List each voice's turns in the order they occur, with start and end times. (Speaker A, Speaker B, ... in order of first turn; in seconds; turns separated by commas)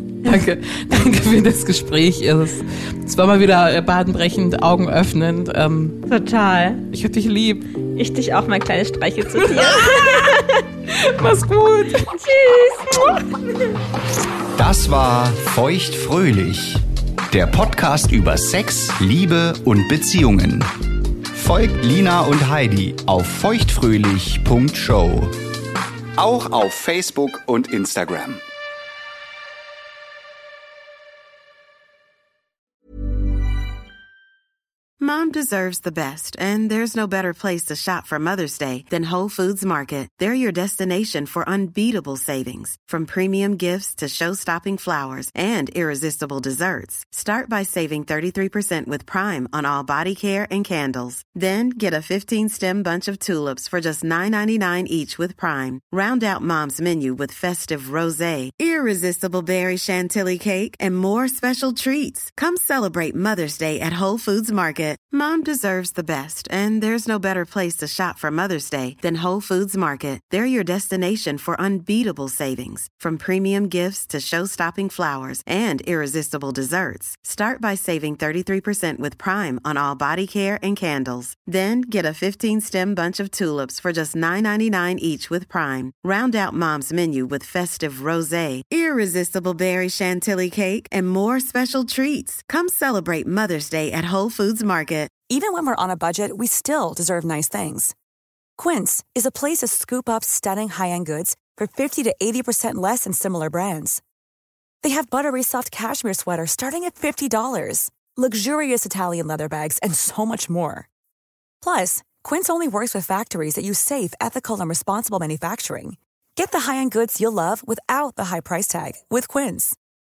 Speaker A: 0.2-6.0, Speaker B: 6.1-6.8, Speaker A: 6.9-7.7, Speaker B: 8.0-10.7, Speaker A: 9.4-12.2, Speaker B: 12.2-13.3, Speaker C: 14.6-20.7, Speaker C: 21.3-25.3, Speaker C: 26.2-28.4, Speaker D: 35.0-95.1, Speaker E: 95.3-98.0, Speaker E: 98.6-104.0, Speaker E: 104.8-110.9, Speaker E: 111.6-119.8